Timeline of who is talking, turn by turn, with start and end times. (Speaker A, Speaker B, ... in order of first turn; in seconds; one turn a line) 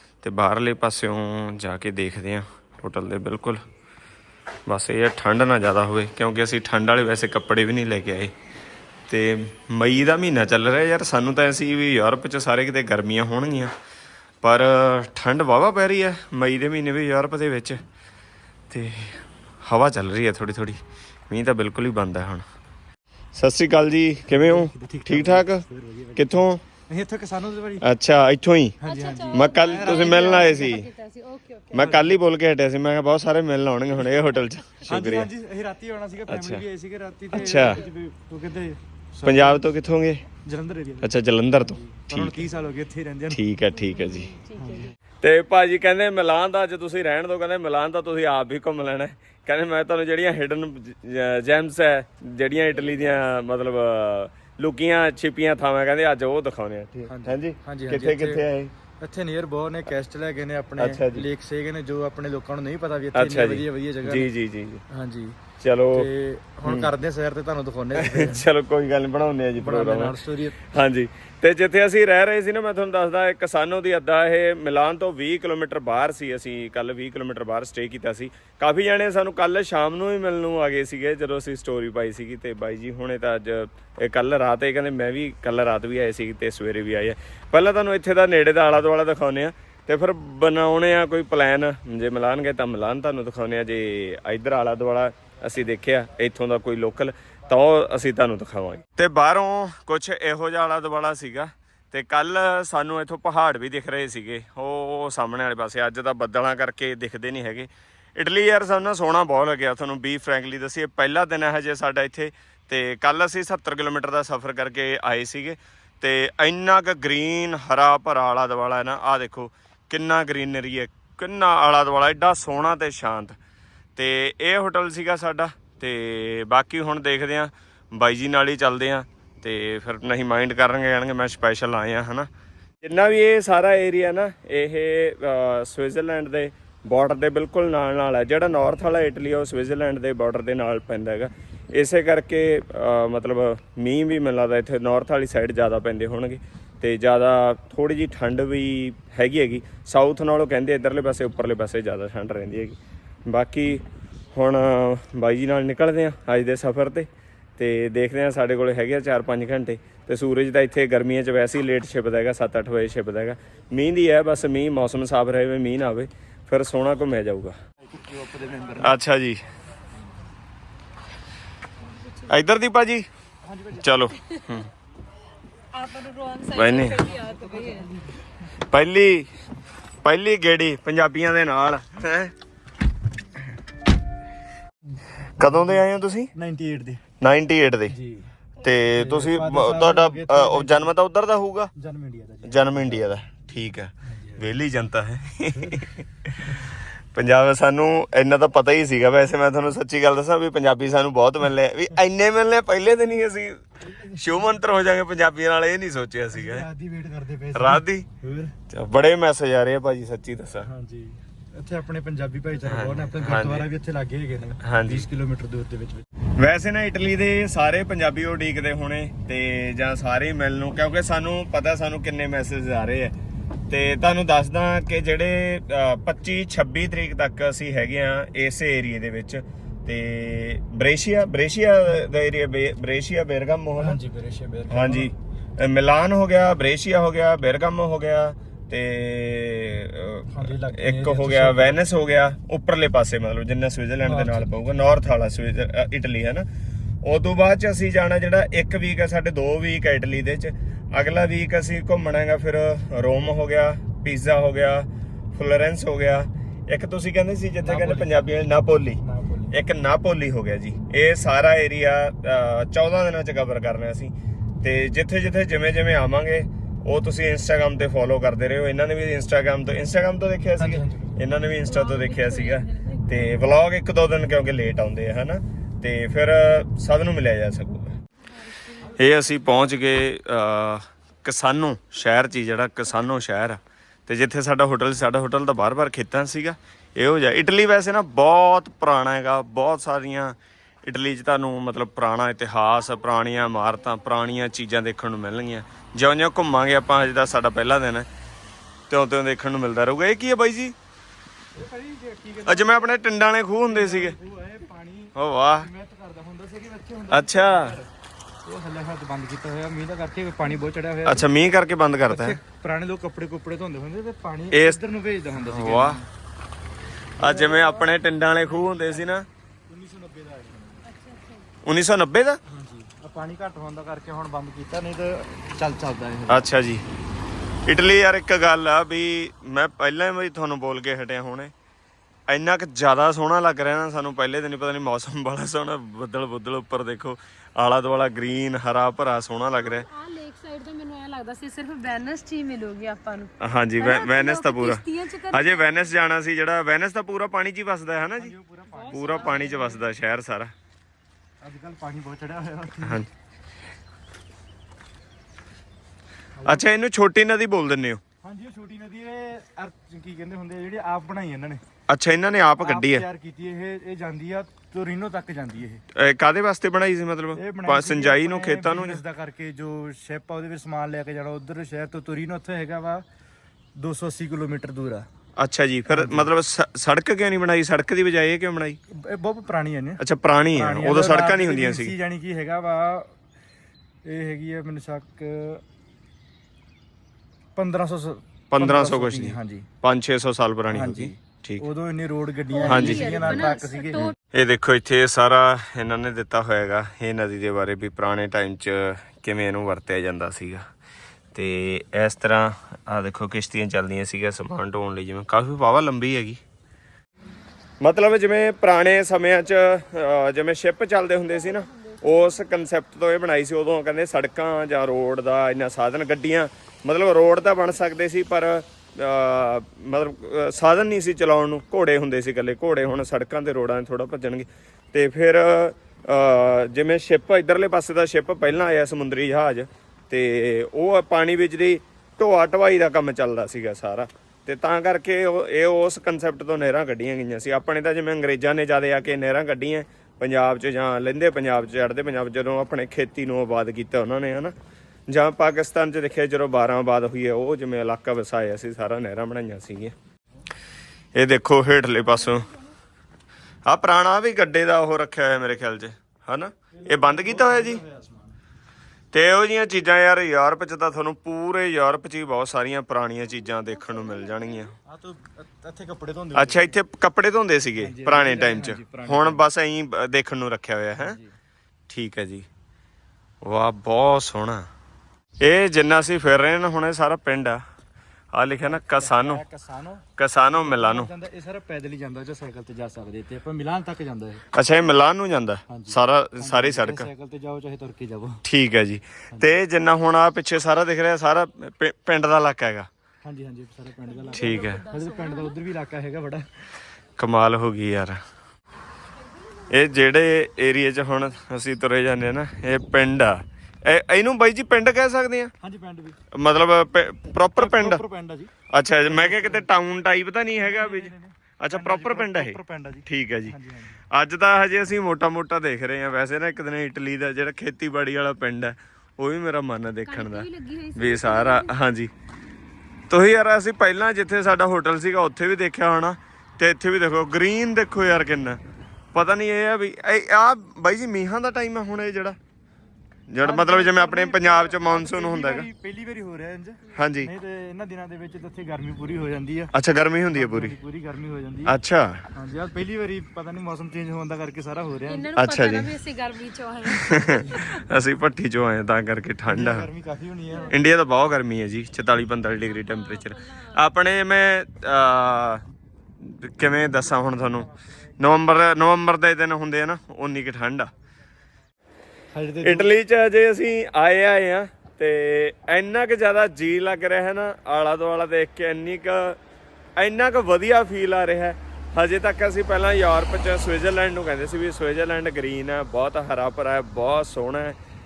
Speaker A: 0.2-3.6
Speaker A: 4.7-8.3
Speaker A: 9.1-13.7
Speaker A: 14.4-17.8
Speaker A: 18.7-22.4
Speaker A: 23.3-25.6
Speaker B: 24.3-27.9
Speaker A: 26.1-26.6
Speaker A: 27.8-28.8
Speaker B: 28.8-30.7
Speaker C: 28.8-32.0
Speaker A: 29.3-30.9
Speaker A: 31.7-35.3
Speaker B: 31.8-32.1
Speaker B: 34.9-39.8
Speaker A: 36.3-36.6
Speaker A: 37.3-37.8
Speaker C: 37.4-37.8
Speaker A: 39.2-40.2
Speaker B: 40.4-43.4
Speaker A: 41.0-42.4
Speaker A: 43.3-44.3
Speaker C: 43.7-44.9
Speaker B: 44.6-44.9
Speaker A: 45.2-58.7
Speaker B: 57.1-58.4
Speaker B: 59.0-64.3
Speaker A: 60.8-61.2
Speaker A: 63.1-64.8
Speaker B: 64.9-65.4
Speaker A: 65.6-66.1
Speaker B: 65.9-68.5
Speaker A: 66.6-66.9
Speaker A: 68.0-70.2
Speaker B: 69.6-70.6
Speaker A: 70.7-123.4
Speaker A: 124.0-132.3
Speaker A: 132.8-167.6
Speaker B: 167.8-168.9
Speaker A: 168.8-169.4
Speaker C: 172.0-172.3
Speaker A: 172.3-173.1
Speaker B: 173.4-174.0
Speaker A: 173.8-174.7
Speaker C: 175.7-177.9
Speaker A: 176.5-177.1
Speaker B: 177.2-178.2
Speaker A: 178.7-179.3
Speaker A: 180.0-182.3
Speaker B: 184.9-185.8
Speaker A: 185.4-186.3
Speaker B: 186.3-187.0
Speaker A: 187.2-187.9
Speaker B: 187.9-188.3
Speaker A: 188.6-191.7
Speaker B: 188.9-190.9
Speaker B: 191.8-193.1
Speaker A: 192.4-206.7
Speaker B: 194.1-194.4
Speaker B: 195.6-195.8
Speaker B: 203.8-204.3
Speaker B: 206.3-208.6
Speaker A: 207.5-208.1
Speaker A: 208.7-210.7
Speaker B: 210.7-216.0
Speaker A: 212.7-213.7
Speaker A: 214.6-215.1
Speaker A: 216.4-223.1
Speaker A: 223.7-234.0
Speaker B: 233.8-235.1
Speaker A: 234.7-246.5
Speaker B: 240.3-241.8
Speaker B: 244.0-244.8
Speaker A: 247.0-259.0
Speaker B: 257.6-258.3
Speaker B: 259.0-259.5
Speaker A: 259.5-278.0
Speaker B: 270.6-271.1
Speaker C: 271.6-273.3
Speaker C: 278.5-278.9
Speaker A: 278.9-298.1
Speaker A: 298.9-300.7
Speaker B: 301.6-303.0
Speaker A: 302.5-304.2
Speaker B: 303.7-307.9
Speaker A: 305.1-305.7
Speaker A: 307.1-307.8
Speaker B: 308.4-311.2
Speaker A: 311.0-312.4
Speaker B: 312.1-316.1
Speaker A: 314.5-314.8
Speaker A: 315.5-316.0
Speaker A: 317.2-319.2
Speaker B: 317.2-317.6
Speaker C: 317.5-317.9
Speaker B: 318.4-320.8
Speaker C: 320.8-321.5
Speaker A: 321.6-322.4
Speaker B: 322.5-326.4
Speaker A: 326.3-326.8
Speaker A: 327.7-331.5
Speaker A: 332.3-339.9
Speaker C: 339.6-345.9
Speaker A: 343.4-348.3
Speaker B: 348.2-349.8
Speaker C: 348.7-349.9
Speaker A: 348.9-350.5
Speaker B: 351.4-353.0
Speaker A: 356.4-358.0
Speaker B: 358.2-361.6
Speaker A: 361.9-363.1
Speaker B: 362.6-365.8
Speaker A: 365.9-369.0
Speaker B: 367.4-373.0
Speaker B: 373.8-375.1
Speaker A: 375.4-378.8
Speaker B: 375.9-376.3
Speaker B: 378.9-380.0
Speaker A: 380.0-381.9
Speaker B: 380.5-383.1
Speaker B: 384.0-385.6
Speaker B: 387.6-389.7
Speaker A: 388.5-391.6
Speaker B: 390.7-394.1
Speaker C: 392.5-394.1
Speaker A: 392.6-400.6
Speaker A: 401.3-406.4
Speaker A: 407.8-444.5
Speaker C: 411.3-412.5
Speaker A: 445.1-449.9
Speaker A: 451.1-452.5
Speaker A: 453.6-457.8
Speaker B: 456.7-458.4
Speaker A: 459.1-464.7
Speaker C: 463.7-464.6
Speaker B: 464.9-466.7
Speaker A: 466.3-471.2
Speaker B: 467.8-469.4
Speaker B: 471.0-471.3
Speaker A: 471.9-472.5
Speaker A: 473.4-474.7
Speaker A: 475.4-477.6
Speaker A: 478.3-479.4
Speaker B: 478.6-484.4
Speaker A: 480.2-481.1
Speaker A: 484.5-487.1
Speaker B: 485.7-488.4
Speaker A: 488.4-492.9
Speaker B: 493.2-496.5
Speaker C: 494.1-495.6
Speaker A: 494.3-494.8
Speaker A: 497.2-498.2
Speaker A: 499.7-505.5
Speaker B: 505.6-506.2
Speaker A: 506.3-508.0
Speaker B: 507.6-508.5
Speaker A: 508.7-513.5
Speaker B: 509.1-509.7
Speaker B: 510.6-514.0
Speaker A: 514.1-522.1
Speaker C: 520.0-521.8
Speaker A: 523.1-528.6
Speaker A: 529.1-532.4
Speaker A: 533.3-535.6
Speaker B: 533.4-539.7
Speaker A: 536.9-537.3
Speaker A: 539.7-540.8
Speaker B: 540.3-541.7
Speaker A: 541.7-542.2
Speaker B: 542.3-545.3
Speaker C: 545.1-547.8
Speaker A: 545.4-545.9
Speaker A: 546.9-549.9
Speaker B: 549.5-550.7
Speaker A: 550.7-555.6
Speaker C: 552.6-553.8
Speaker A: 556.2-560.9
Speaker B: 562.3-562.9
Speaker A: 562.6-569.4
Speaker A: 570.0-577.8